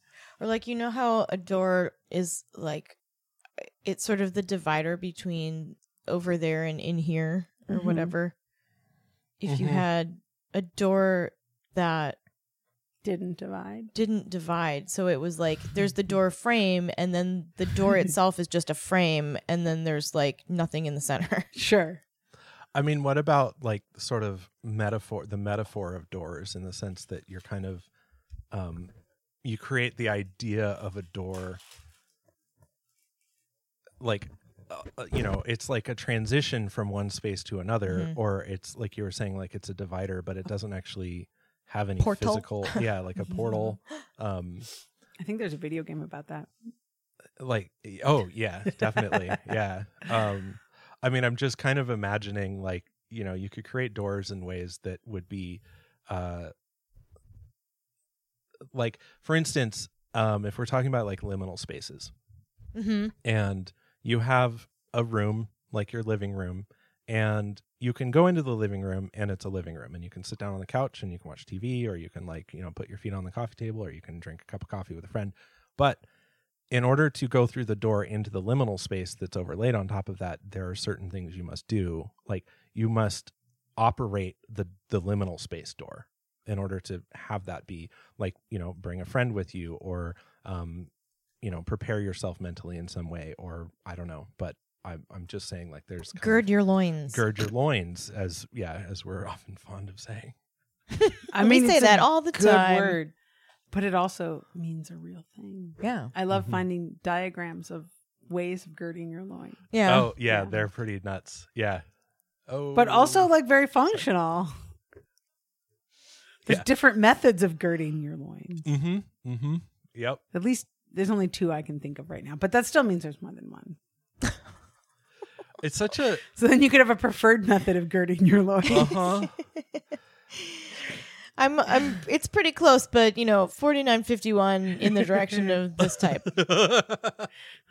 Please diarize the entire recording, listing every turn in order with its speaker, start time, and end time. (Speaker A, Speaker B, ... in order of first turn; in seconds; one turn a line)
Speaker A: 0.4-3.0
Speaker A: 3.6-8.3
Speaker B: 7.7-8.1
Speaker A: 9.4-12.2
Speaker C: 9.4-9.8
Speaker B: 13.0-13.9
Speaker A: 13.9-21.5
Speaker B: 21.6-22.0
Speaker C: 22.7-27.9
Speaker C: 28.5-28.9
Speaker C: 29.4-31.6
Speaker C: 34.0-44.7
Speaker A: 37.9-38.2
Speaker A: 42.0-42.8
Speaker B: 43.3-43.7
Speaker B: 45.2-46.5
Speaker C: 47.4-56.5
Speaker C: 58.7-62.1
Speaker A: 62.7-63.1
Speaker C: 63.2-76.0
Speaker C: 76.7-90.9
Speaker C: 91.4-96.5
Speaker A: 96.2-97.2
Speaker C: 97.1-100.3
Speaker A: 101.0-103.0
Speaker B: 101.3-103.1
Speaker B: 103.7-109.7
Speaker A: 105.8-106.1
Speaker C: 106.3-106.6
Speaker A: 109.7-110.1
Speaker C: 109.8-111.8
Speaker B: 110.2-110.5
Speaker C: 112.5-113.3
Speaker B: 112.7-114.6
Speaker B: 116.5-118.7
Speaker C: 118.6-120.2
Speaker B: 120.3-123.8
Speaker C: 125.6-126.2
Speaker B: 126.4-129.0
Speaker C: 128.7-129.3
Speaker A: 128.7-129.1
Speaker A: 130.4-130.7
Speaker A: 131.4-136.3
Speaker C: 135.8-137.3